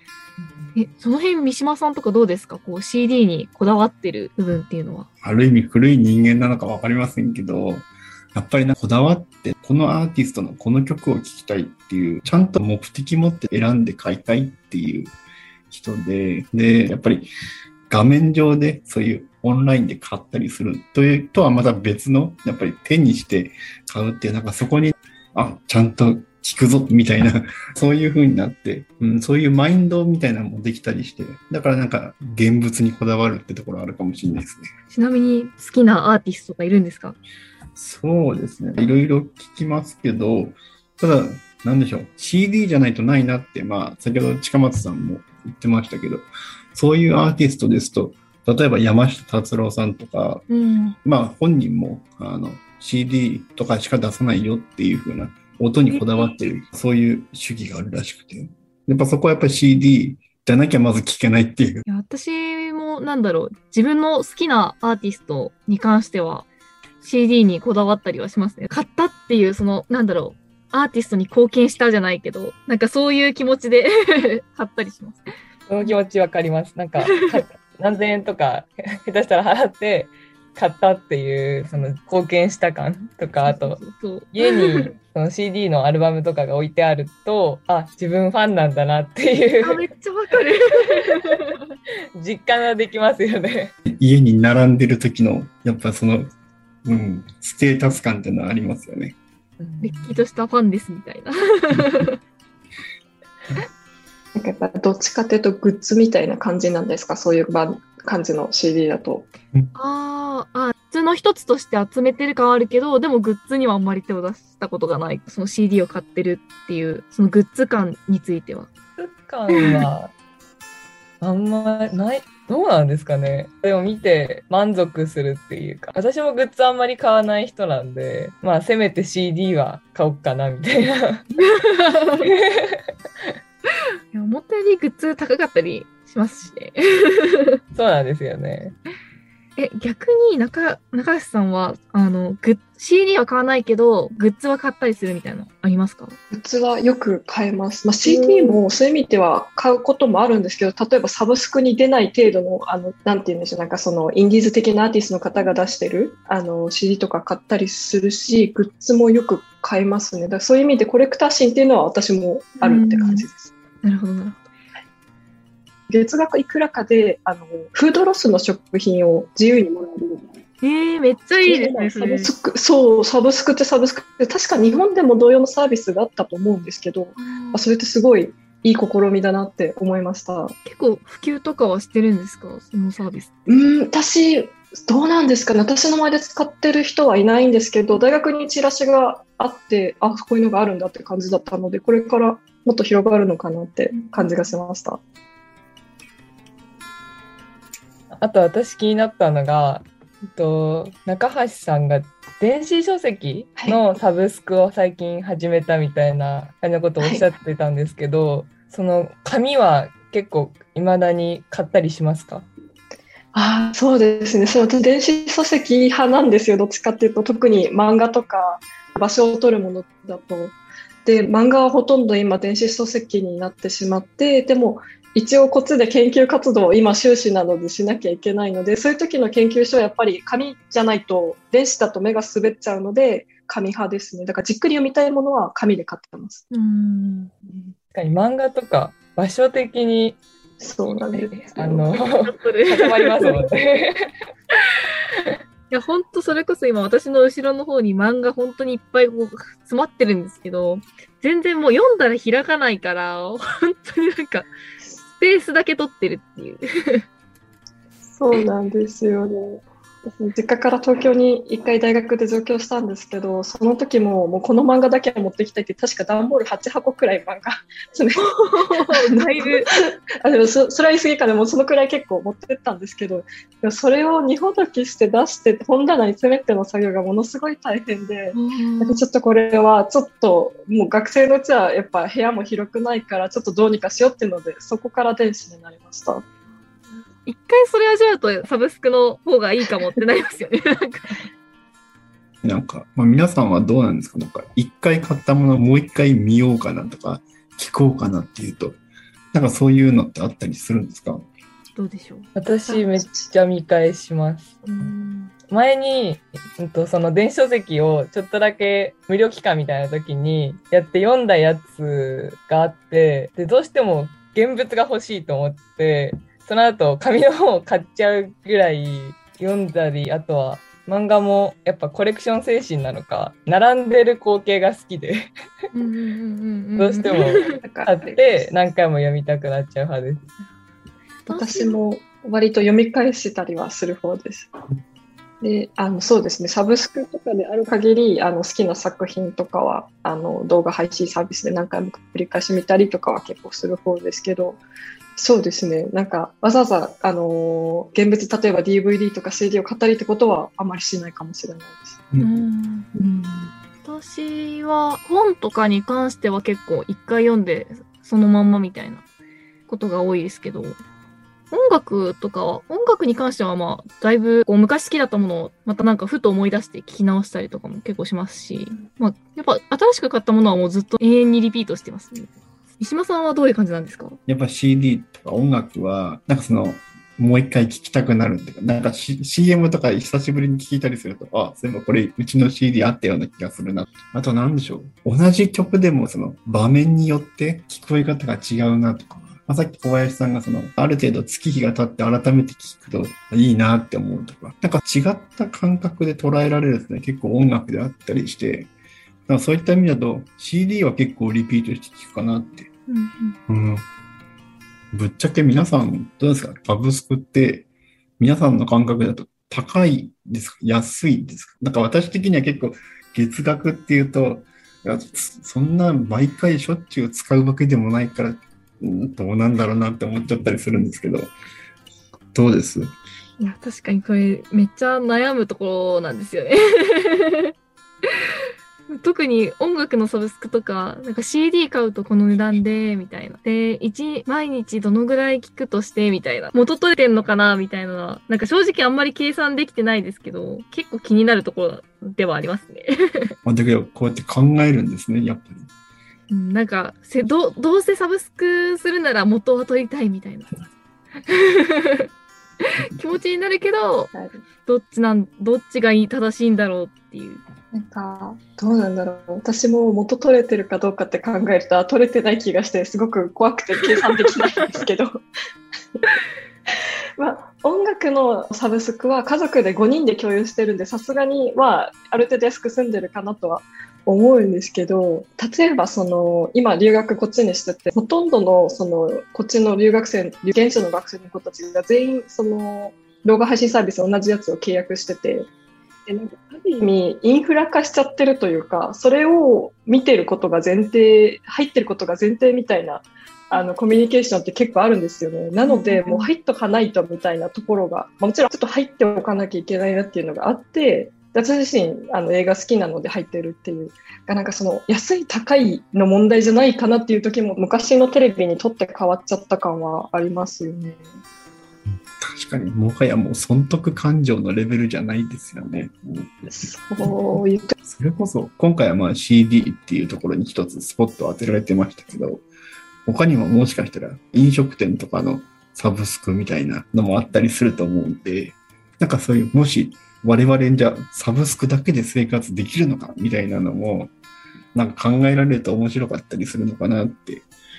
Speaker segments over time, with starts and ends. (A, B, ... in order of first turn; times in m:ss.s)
0:00.4-0:00.7 A
0:00.7-0:05.1 B
0:05.2-0:15.1 C
0:15.7-0:17.3 C
0:17.9-0:34.7 C
0:34.9-0:37.2 B
0:37.8-0:50.4 C
0:50.5-0:51.0 B
0:51.0-1:01.8 C
0:55.9-0:56.3 B
1:01.8-1:06.5 B
1:07.0-1:15.2 B
1:15.7-1:23.8 A
1:17.0-1:17.4 B
1:23.4-1:24.9 B
1:24.3-1:29.8 A
1:29.6-1:31.6 B
1:32.2-1:33.7 A
1:33.8-1:36.3 C
1:36.8-1:39.2 C
1:39.6-1:40.2 A
1:39.8-1:42.2 B
1:44.4-1:49.3 D
1:49.7-1:58.7 B
1:59.0-2:00.1 A
1:59.5-1:59.8 B
2:01.2-2:11.3 A
2:11.4-2:12.3 B
2:12.2-2:12.8 A
2:14.1-2:17.6 B
2:17.7-2:18.8 A
2:19.6-2:26.2 B
2:26.3-2:43.5 D
2:28.0-2:28.6 B
2:35.4-2:35.6 B
2:42.6-2:43.3 B
2:43.8-2:44.4 B
2:45.9-2:50.4 D
2:50.6-2:52.3 B
2:51.4-3:00.5 D
2:57.2-2:57.6 B
3:00.6-3:03.3 B
3:03.5-3:15.0 D
3:13.9-3:14.5 B
3:18.1-3:32.5 A
3:27.0-3:27.2 D
3:33.3-3:56.4 D
3:56.5-3:57.3 B
3:57.9-4:00.2 A
4:00.6-4:01.8 D
4:01.1-4:04.0 A
4:02.2-4:03.4 B
4:05.7-4:14.5 B
4:15.2-4:17.0 B
4:18.1-4:46.2 D
4:28.2-4:29.7 B
4:38.3-4:39.0 B
4:47.2-4:51.3 B
4:52.4-4:58.8 C
4:59.3-5:01.2 C
5:01.8-5:02.3 B
5:02.3-5:04.6 A
5:02.7-5:03.3 D
5:04.6-5:05.3 B
5:05.5-5:25.3 A
5:25.7-5:27.6 B
5:26.8-5:30.3 A
5:27.2-5:28.5 D
5:31.3-5:31.8 B
5:31.3-5:34.5 D
5:35.4-5:44.6 D
5:45.2-5:52.0 D
5:52.1-5:52.4 C
5:52.2-5:52.9 B
5:53.8-5:59.0 B
5:59.7-6:00.8 B
6:01.5-6:14.2 B
6:14.3-6:38.7 C
6:39.3-6:42.7 C
6:42.9-6:43.4 B
6:43.5-6:43.8 C
6:44.9-6:47.7 C
6:48.2-7:01.3 C
7:02.3-7:02.9 C
7:03.4-7:07.5 B
7:08.9-7:23.3 B
7:23.4-7:25.7 C
7:26.3-7:30.7 B
7:31.3-7:32.1 B
7:32.9-7:34.1 B
7:34.1-7:34.4 D
7:34.6-7:37.4 B
7:37.7-7:45.2 D
7:47.2-8:05.5 D
8:06.0-8:31.2 D
8:15.6-8:16.3 B
8:32.2-8:36.4 C
8:36.5-8:37.7 D
8:37.8-8:42.4 C
8:43.0-8:54.1 C
8:54.7-8:57.5 C